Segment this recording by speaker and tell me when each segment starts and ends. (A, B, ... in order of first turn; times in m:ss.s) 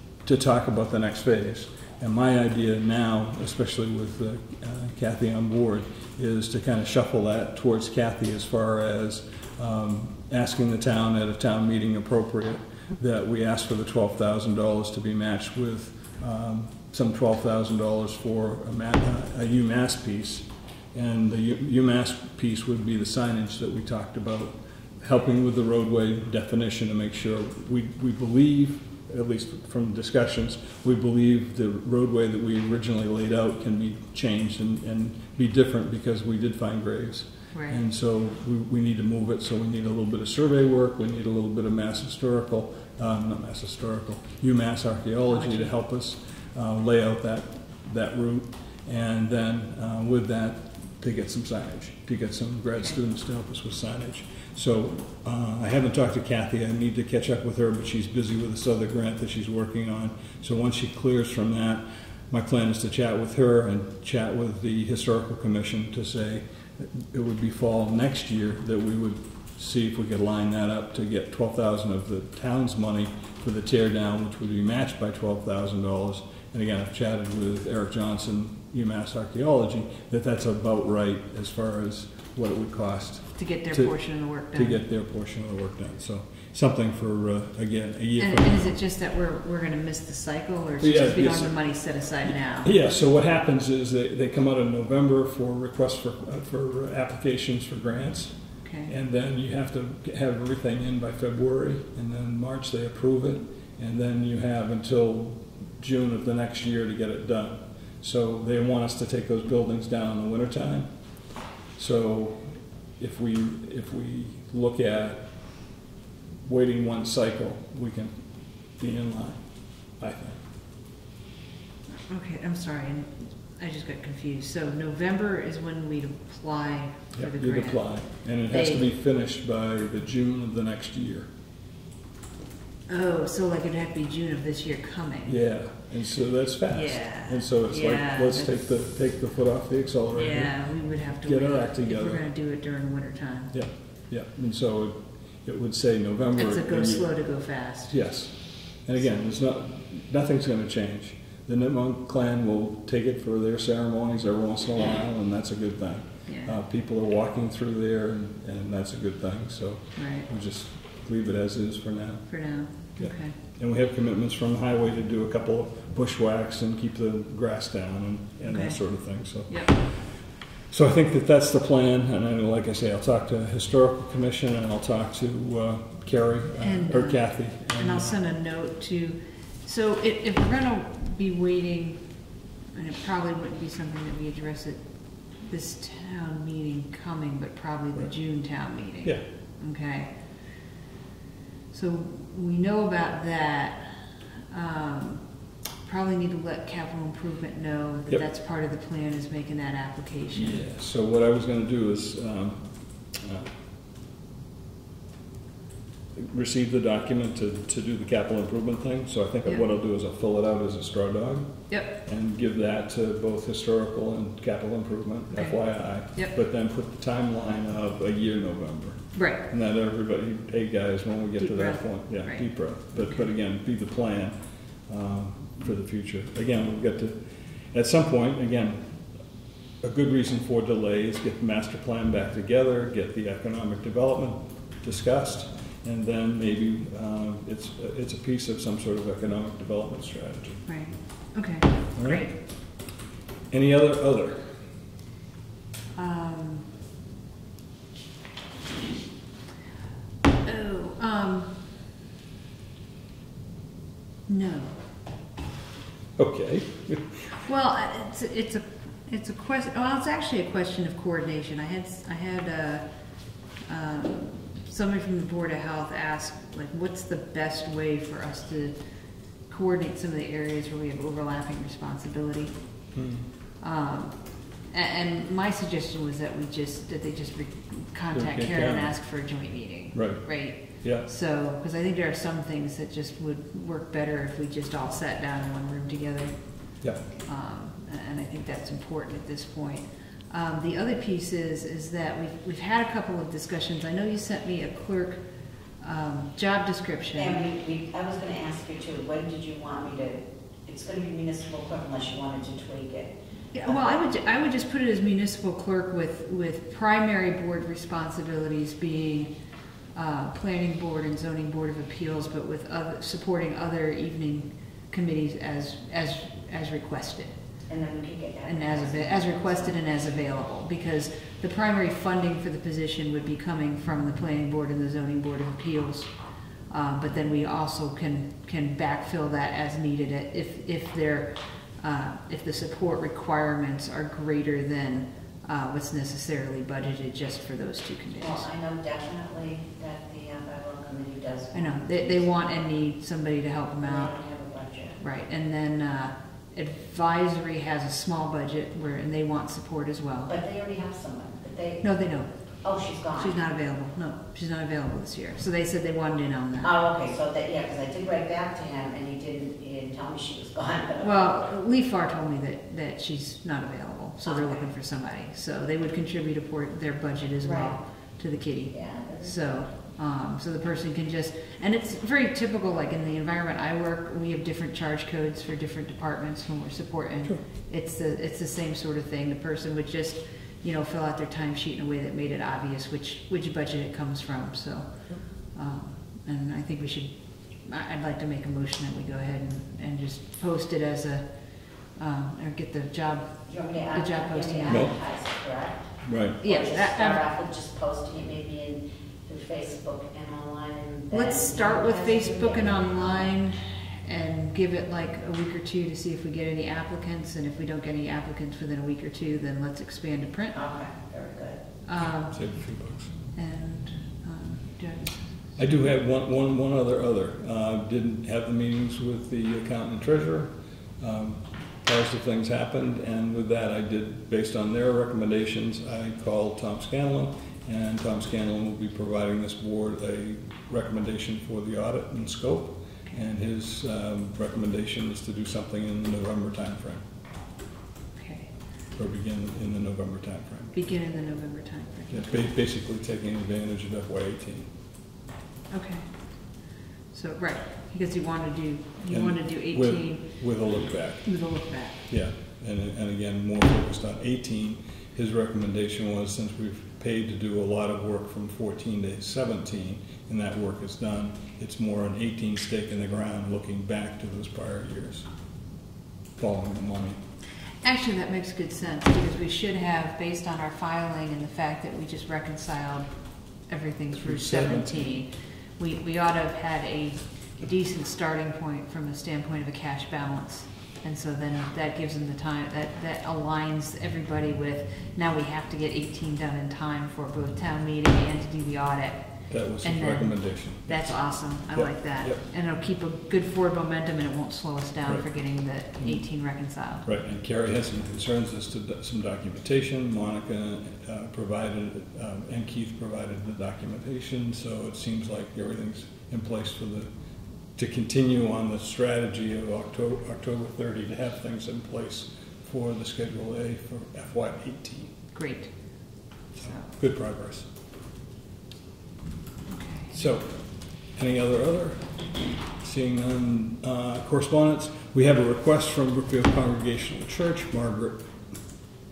0:00.2-1:28.7 A
0:37.5-0:37.8 B
0:45.3-0:45.7 B
1:23.4-1:24.8 B
1:28.2-1:32.7 B
1:30.8-1:31.6 A
1:32.2-1:50.9 A
1:38.6-1:38.9 B
1:51.8-1:55.3 A
1:56.4-1:58.2 A
1:58.8-1:59.4 A
2:00.0-2:00.4 A
2:01.9-2:07.9 B
2:07.2-2:11.3 A
2:08.5-2:08.8 B
2:12.9-2:15.4 B
2:15.3-2:20.6 A
2:16.7-2:18.6 B
2:20.1-2:23.6 B
2:21.2-2:22.2 A
2:23.5-2:27.1 A
2:26.4-2:28.0 B
2:27.9-2:42.3 A
2:36.3-2:36.6 B
2:40.0-2:40.3 B
2:42.3-2:43.4 B
2:43.0-2:58.1 A
2:48.5-2:48.8 B
2:49.5-2:49.7 B
2:56.6-3:02.0 B
3:02.7-3:10.2 B
3:11.7-3:14.0 B
3:14.5-3:15.3 B
3:15.8-3:20.6 B
3:20.4-3:23.5 A
3:26.2-3:44.4 A
3:35.3-3:35.6 B
3:36.1-3:36.4 B
3:39.2-3:39.5 B
3:41.4-3:43.2 B
3:44.9-3:49.0 A
3:49.8-4:00.7 A
4:00.7-4:02.4 B
4:02.0-4:02.3 A
4:03.5-4:04.6 A
4:06.0-4:06.7 B
4:10.4-4:11.6 B
4:14.3-4:14.8 B
4:16.2-4:17.4 A
4:17.4-4:22.8 B
4:23.7-4:28.8 B
4:29.5-4:32.6 B
4:32.9-4:33.3 A
4:33.6-4:46.4 B
4:38.1-4:38.9 A
4:39.9-4:41.1 A
4:47.2-4:55.2 B
4:55.8-4:57.4 B
4:57.2-5:04.0 C
5:03.5-5:09.3 B
5:09.9-5:17.4 B
5:17.7-5:20.1 C
5:18.4-5:26.2 B
5:26.7-5:38.5 B
5:38.2-5:42.5 C
5:41.5-5:44.2 B
5:43.8-5:45.0 C
5:45.0-5:50.4 B
5:50.3-5:51.9 C
5:51.8-5:52.3 B
5:52.6-5:53.4 C
5:53.2-5:56.7 B
5:56.6-6:01.5 C
6:01.0-6:31.3 B
6:04.2-6:04.6 C
6:07.4-6:07.8 C
6:08.7-6:09.4 C
6:31.9-6:34.9 B
6:33.5-6:43.3 C
6:34.7-6:35.0 A
6:36.0-6:36.4 A
6:36.4-6:37.3 B
6:41.1-6:50.6 B
6:50.5-6:51.6 C
6:51.8-6:52.4 B
6:52.3-6:53.1 A
6:53.4-6:55.2 B
6:55.6-7:17.0 A
7:18.2-7:18.5 B
7:19.0-7:20.8 A
7:20.7-7:22.5 B
7:22.1-7:24.7 A
7:25.7-7:30.4 B
7:29.1-7:31.4 A
7:31.2-7:32.1 B
7:32.1-7:45.3 A
7:46.4-7:47.2 A
7:47.8-7:53.1 B
7:53.7-8:17.1 B
7:54.3-7:54.9 A
8:09.5-8:12.4 A
8:17.0-8:27.1 A
8:27.8-8:35.1 A
8:35.3-8:35.7 B
8:36.6-8:37.7 A
8:36.6-8:36.9 B
8:39.7-8:40.1 B
8:40.1-8:42.2 A
8:42.8-8:48.3 A